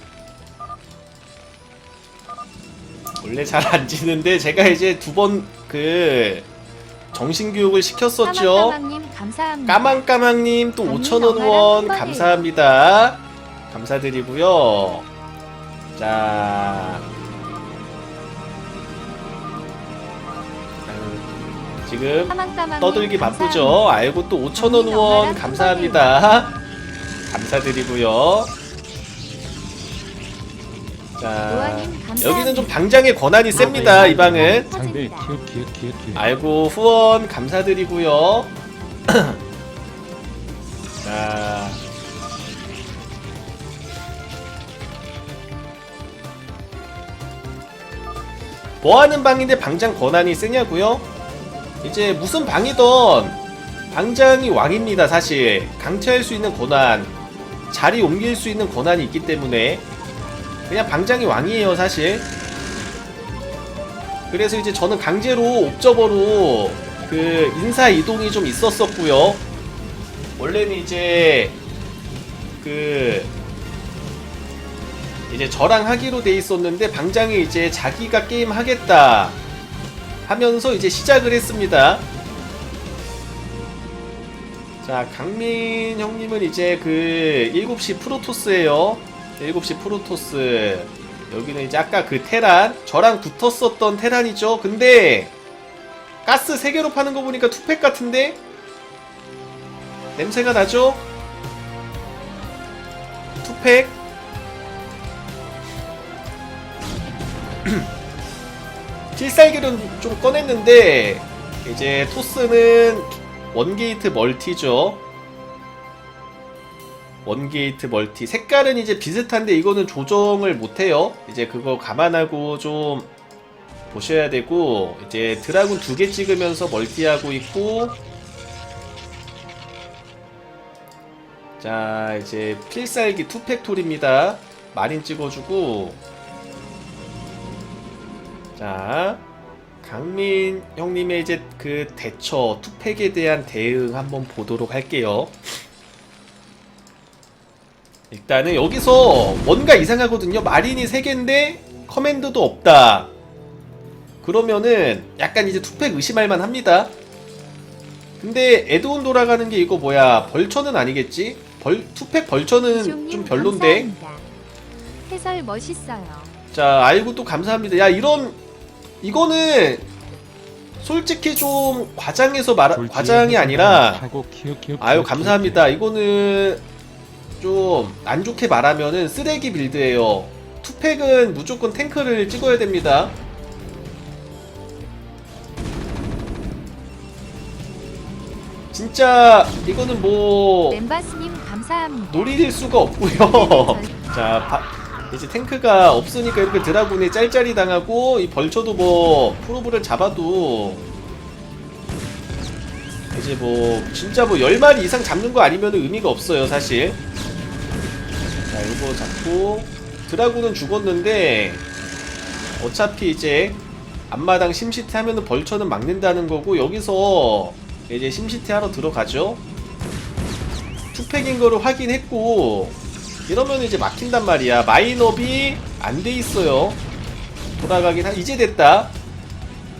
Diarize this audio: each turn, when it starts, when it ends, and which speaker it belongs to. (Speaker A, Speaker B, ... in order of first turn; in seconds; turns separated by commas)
Speaker A: 3.2-6.5, Speaker A: 7.1-8.8, Speaker B: 8.2-10.0, Speaker A: 9.7-15.1, Speaker B: 10.8-12.5, Speaker A: 15.9-17.0, Speaker A: 20.9-21.3, Speaker A: 21.8-26.5, Speaker B: 22.3-24.0, Speaker B: 24.5-26.1, Speaker A: 27.3-28.5, Speaker A: 31.2-34.7, Speaker B: 31.5-32.8, Speaker B: 33.5-35.3, Speaker C: 33.5-36.3, Speaker A: 36.1-38.5, Speaker A: 39.1-39.4, Speaker A: 41.0-41.8, Speaker A: 48.8-51.0, Speaker A: 51.8-53.4, Speaker A: 53.9-57.1, Speaker A: 57.7-59.8, Speaker A: 60.7-62.3, Speaker A: 64.3-69.4, Speaker A: 70.4-71.5, Speaker A: 72.6-73.3, Speaker A: 75.3-79.4, Speaker A: 80.2-82.0, Speaker A: 84.8-95.3, Speaker A: 96.2-98.4, Speaker A: 100.2-101.0, Speaker A: 103.4-104.0, Speaker A: 107.6-107.9, Speaker A: 109.1-115.0, Speaker A: 117.2-123.1, Speaker A: 123.9-128.0, Speaker A: 131.6-136.0, Speaker A: 138.6-139.2, Speaker A: 139.8-145.6, Speaker A: 148.1-153.1, Speaker A: 154.2-156.9, Speaker A: 158.2-163.9, Speaker B: 162.6-164.3, Speaker B: 165.1-166.3, Speaker A: 166.5-168.4, Speaker A: 169.0-169.9, Speaker A: 170.8-174.1, Speaker C: 172.7-175.7, Speaker A: 174.8-176.6, Speaker A: 177.4-183.1, Speaker A: 188.7-190.8, Speaker B: 190.7-193.9, Speaker A: 192.1-200.8, Speaker A: 203.1-207.0, Speaker A: 208.5-211.6, Speaker A: 212.6-219.4, Speaker A: 220.9-222.8, Speaker A: 223.3-226.8, Speaker A: 227.6-228.9